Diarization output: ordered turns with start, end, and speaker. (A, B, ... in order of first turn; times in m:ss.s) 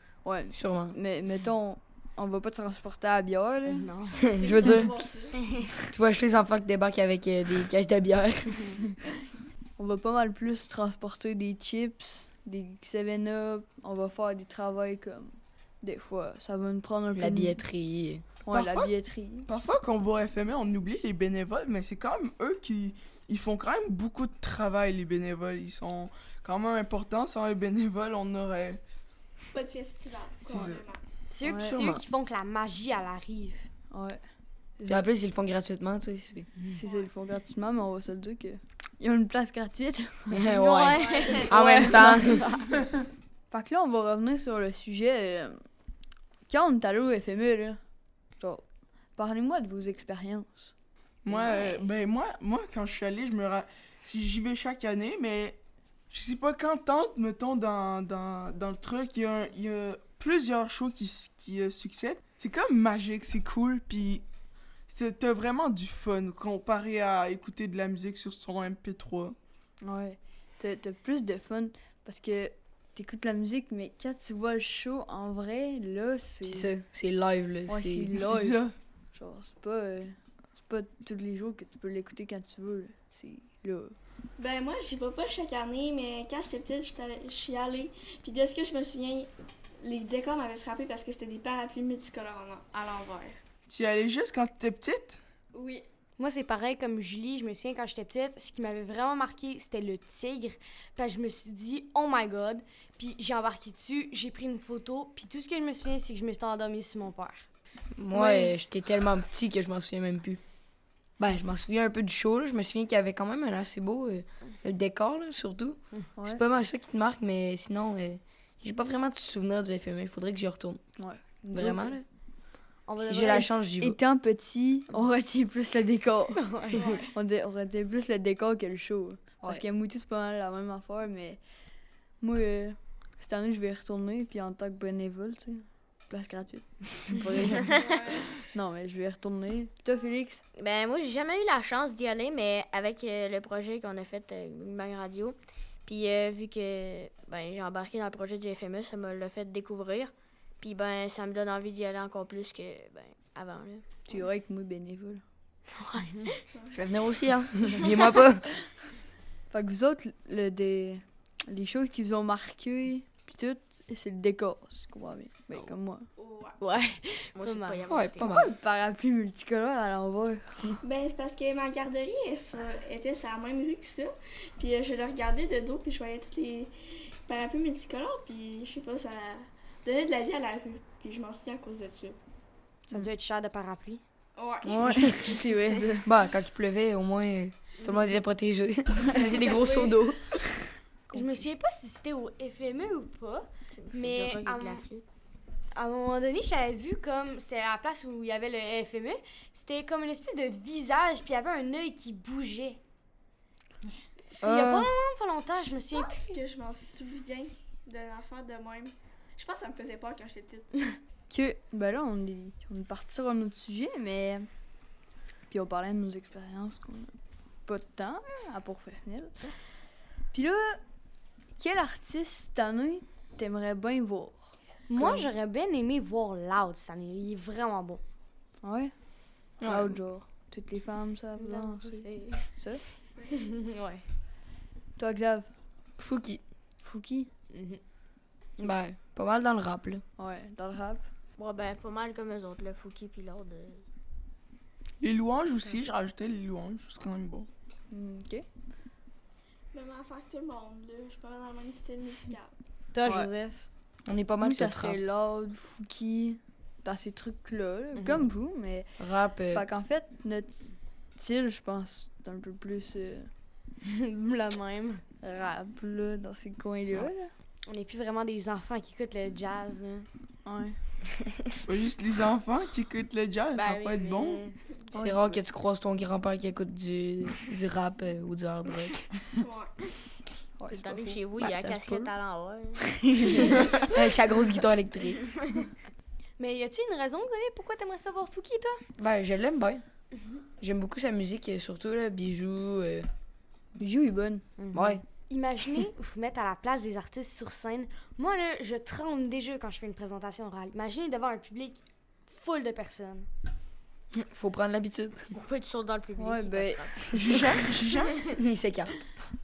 0:00.2-0:03.9 A
0:00.5-0:01.0 B
0:03.7-0:04.2 C
0:04.3-0:05.4 D
0:04.3-0:05.0 B
0:05.9-0:08.8 B
0:09.8-0:15.3 A
0:15.8-0:17.6 A
0:17.1-0:18.2 B
0:18.4-0:19.5 A
0:18.5-0:18.9 E
0:19.5-0:28.8 E
0:29.5-0:31.0 D
0:30.4-0:30.8 E
0:31.3-0:33.7 C
0:31.4-0:32.0 B
0:31.4-0:31.7 A
0:33.9-0:34.2 A
0:34.8-0:35.1 A
0:34.9-0:36.5 B
0:36.7-0:40.5 A
0:40.3-0:42.5 B
0:40.5-0:41.9 C
0:41.0-0:42.0 F
0:41.2-0:41.5 D
0:41.8-0:42.7 A
0:43.5-0:45.5 A
0:46.5-0:47.8 A
0:49.2-0:50.7 A
0:51.2-0:55.6 E
0:51.3-0:51.8 F
0:56.1-1:04.2 E
1:04.9-1:09.4 E
1:09.8-1:16.7 A
1:16.4-1:18.1 B
1:17.7-1:18.6 A
1:18.1-1:18.7 E
1:19.1-1:23.9 A
1:24.4-1:29.3 D
1:29.8-1:33.4 D
1:33.7-1:35.2 E
1:36.2-1:47.4 C
1:48.0-1:50.4 B
1:48.2-1:48.5 A
1:51.2-2:00.8 B
1:56.2-1:56.4 A
2:01.0-2:01.2 A
2:01.5-2:02.0 B
2:01.5-2:02.0 C
2:02.9-2:03.5 C
2:03.0-2:04.0 B
2:03.3-2:06.4 A
2:06.3-2:07.0 C
2:07.1-2:11.4 A
2:12.2-2:20.4 A
2:17.7-2:18.3 D
2:20.6-2:33.8 F
2:34.1-2:35.2 A
2:35.8-2:36.3 F
2:36.0-2:36.3 C
2:36.5-2:37.0 D
2:36.7-2:38.5 B
2:39.5-2:46.0 A
2:46.2-2:46.6 D
2:46.6-2:48.0 C
2:47.4-2:48.4 F
2:47.9-2:48.5 B
2:48.2-2:50.8 A
2:50.8-2:56.7 D
2:57.2-3:02.2 D
3:02.9-3:04.0 C
3:04.4-3:05.5 D
3:04.6-3:06.1 A
3:06.0-3:10.2 B
3:09.2-3:09.8 D
3:11.1-3:11.5 A
3:11.1-3:14.8 C
3:13.7-3:15.0 F
3:15.7-3:22.8 C
3:24.3-3:26.4 C
3:24.4-3:24.9 A
3:25.9-3:30.7 D
3:31.3-3:34.5 A
3:35.5-3:37.1 A
3:37.7-3:39.3 A
3:40.3-3:40.8 A
3:41.6-3:45.3 A
3:44.9-3:48.0 C
3:48.6-3:48.9 A
3:49.6-3:50.0 B
3:49.6-3:52.8 A
3:51.4-3:52.5 C
3:53.2-3:53.6 D
3:53.3-3:54.0 C
3:55.0-3:55.5 A
3:56.0-3:56.4 B
3:56.8-3:57.3 A
3:57.5-3:57.8 C
3:58.6-4:00.0 B
4:00.2-4:01.0 A
4:01.4-4:03.8 F
4:05.0-4:07.5 E
4:07.9-4:08.4 A
4:09.7-4:12.5 D
4:12.9-4:13.6 C
4:13.0-4:13.3 A
4:14.0-4:15.0 B
4:14.4-4:18.9 A
4:17.9-4:18.2 C
4:19.0-4:19.6 B
4:19.5-4:23.3 A
4:23.8-4:25.0 C
4:25.2-4:27.3 A
4:27.7-4:30.1 C
4:30.4-4:30.8 A
4:31.7-4:34.4 E
4:33.5-4:34.4 F
4:34.9-4:35.4 A
4:34.9-4:39.0 B
4:39.4-4:39.7 D
4:40.6-4:41.2 A
4:40.7-4:43.9 F
4:41.4-4:42.1 B
4:42.8-4:45.3 B
4:46.4-4:48.8 C
4:49.0-4:49.8 B
4:50.6-4:53.1 B
4:53.8-4:54.4 A
4:54.6-5:03.3 C
4:54.7-4:55.0 B
5:04.1-5:05.3 B
5:05.3-5:08.1 F
5:06.2-5:07.0 A
5:07.1-5:08.2 E
5:08.3-5:09.0 B